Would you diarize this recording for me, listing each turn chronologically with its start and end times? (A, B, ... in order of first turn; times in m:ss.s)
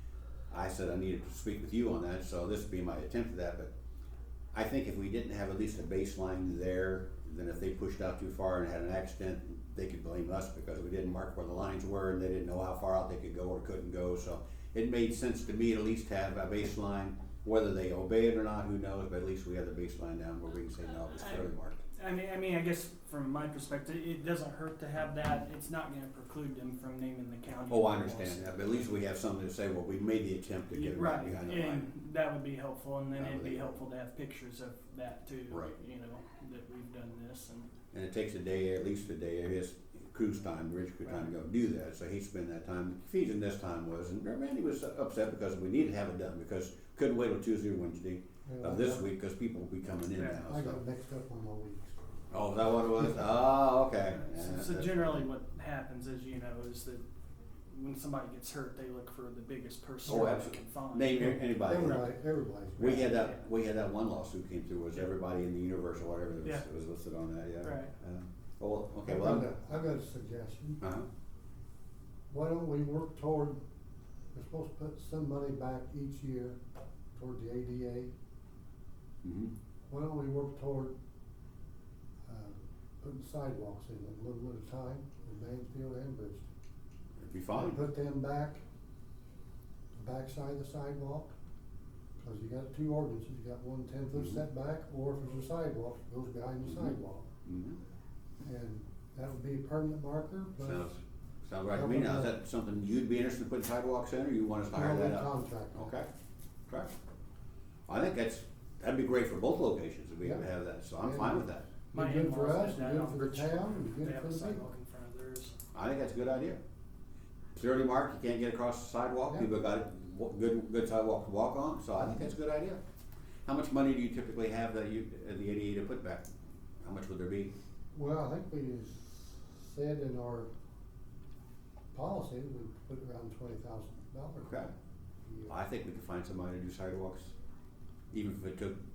0:00.5-0:03.7 A
0:04.5-0:21.8 A
0:21.2-0:28.7 B
0:27.7-0:31.9 A
0:30.7-0:37.7 B
0:33.2-0:33.7 A
0:35.5-0:35.7 A
0:37.9-0:50.8 A
0:48.4-0:49.1 C
0:50.2-0:50.4 B
0:50.4-0:52.0 C
0:52.3-0:55.3 A
0:54.1-0:57.0 B
0:57.7-1:02.0 B
1:00.0-1:02.1 A
1:01.2-1:03.0 C
1:02.8-1:09.5 A
1:02.8-1:03.4 B
1:07.6-1:07.9 B
1:09.0-1:10.8 C
1:10.8-1:11.1 A
1:12.3-1:13.6 C
1:14.3-1:16.6 C
1:17.1-1:18.1 C
1:19.2-1:19.5 A
1:19.9-1:20.9 C
1:22.3-1:26.4 C
1:27.2-1:27.8 A
1:27.5-1:28.6 C
1:30.0-1:31.3 C
1:32.2-1:37.3 C
1:34.2-1:34.4 A
1:36.6-1:36.9 A
1:37.4-1:37.8 A
1:38.4-1:40.9 C
1:40.6-1:46.1 A
1:41.7-1:42.3 C
1:44.7-1:45.9 C
1:46.7-1:46.9 A
1:47.9-1:51.7 A
1:51.0-1:54.6 C
1:51.9-1:55.5 B
1:55.7-1:56.6 A
1:57.6-2:02.8 A
2:02.0-2:02.3 C
2:03.5-2:06.3 A
2:06.8-2:07.5 A
2:07.9-2:10.5 C
2:11.9-2:14.7 C
2:14.4-2:14.7 A
2:15.2-2:15.5 C
2:15.5-2:17.3 A
2:18.1-2:18.8 A